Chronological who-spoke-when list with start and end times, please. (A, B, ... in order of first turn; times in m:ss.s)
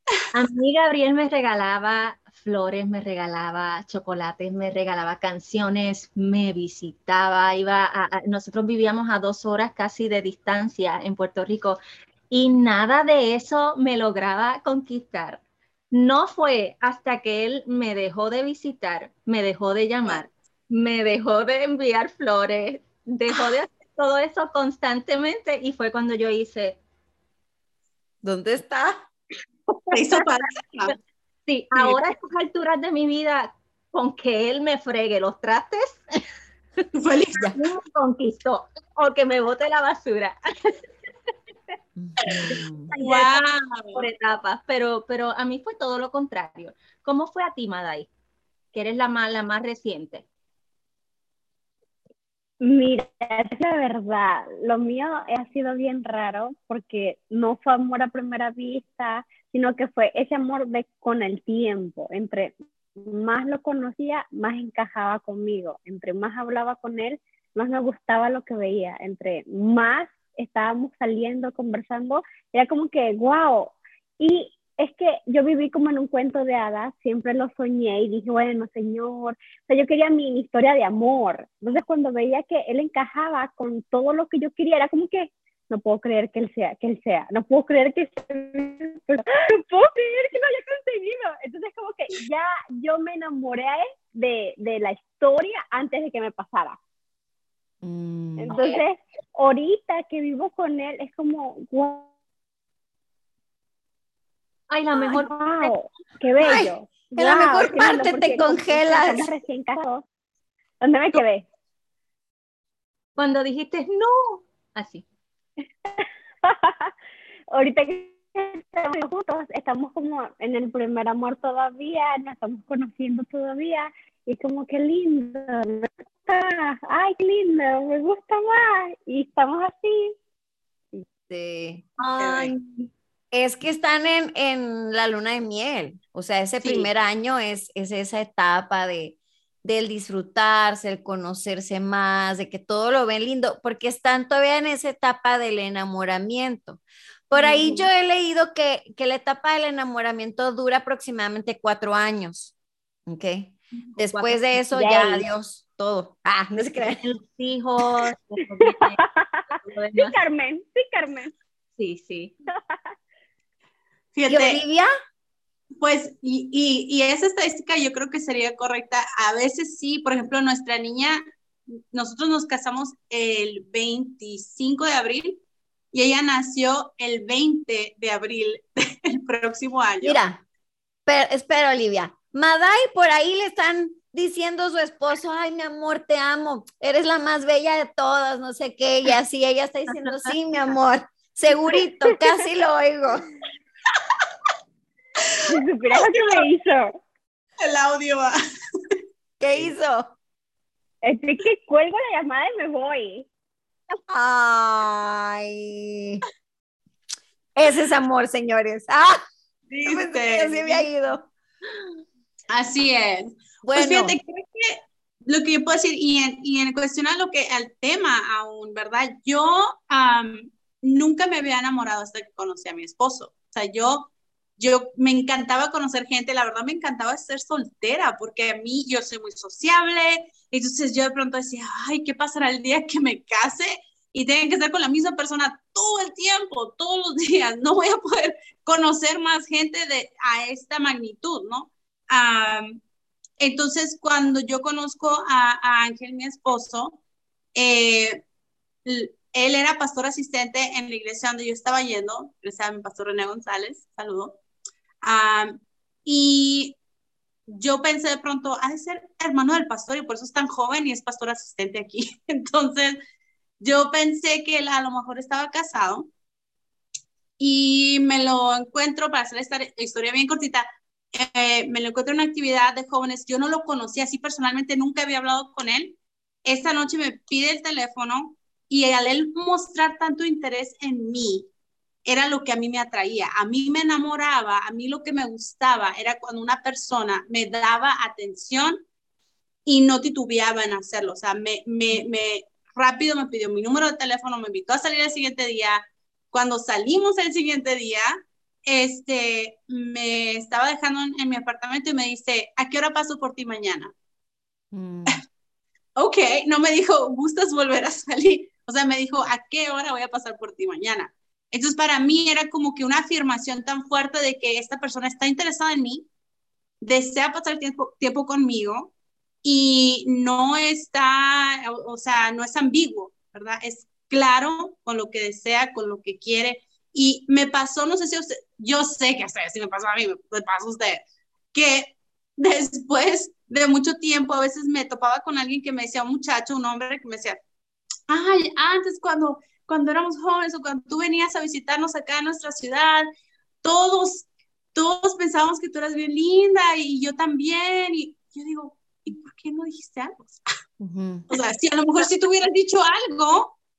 0:00.3-0:26.8 A
0:28.2-0:29.0 B
0:29.9-0:30.9 C
0:31.5-0:36.0 A
0:36.9-0:37.6 C
0:37.3-0:40.7 A
0:42.0-0:42.9 B
0:42.2-0:43.4 A
0:43.0-0:44.0 C
0:43.9-0:48.1 A
0:48.7-0:50.2 A
0:52.6-1:36.8 D
1:37.8-1:38.6 B
1:38.4-1:42.1 D
1:44.7-1:45.7 A
1:45.0-1:50.0 D
1:46.4-1:49.3 B
1:50.8-1:51.5 D
1:53.2-1:55.0 A
1:56.0-1:56.9 D
1:57.5-2:10.1 D
2:11.3-2:12.5 B
2:12.0-2:12.3 A
2:12.2-2:12.5 C
2:13.3-2:32.5 B
2:16.6-2:16.9 C
2:27.4-2:27.8 A
2:33.1-2:37.0 B
2:33.8-2:34.5 A
2:34.7-2:35.2 D
2:36.8-2:39.0 A
2:38.6-2:41.3 D
2:39.6-2:40.2 A
2:41.8-2:42.4 A
2:44.1-2:44.6 C
2:44.3-2:44.9 B
2:45.8-2:51.2 C
2:51.9-3:00.2 C
3:00.0-3:00.4 B
3:01.1-3:13.2 B
3:15.4-3:17.0 D
3:15.9-3:16.4 C
3:17.6-3:18.3 C
3:19.4-3:20.1 B
3:21.0-3:23.3 D
3:24.1-3:26.2 B
3:27.6-3:29.2 B
3:29.7-3:30.9 C
3:29.8-3:31.3 B
3:32.5-4:02.8 C
3:33.6-3:34.2 B
4:03.4-4:07.0 C
4:07.5-4:08.2 C
4:08.8-4:14.4 C
4:15.0-4:16.8 C
4:17.5-4:23.0 C
4:23.6-4:26.1 C
4:27.4-4:41.5 C
4:42.0-4:48.8 C
4:49.6-4:58.1 C
4:58.6-5:03.9 C
5:04.7-5:05.2 B
5:06.0-5:16.1 C
5:16.8-5:18.9 C
5:19.4-5:31.0 C
5:31.5-5:37.4 C
5:38.1-5:43.1 C
5:43.6-5:50.4 C
5:50.8-5:51.2 B
5:51.3-5:53.6 C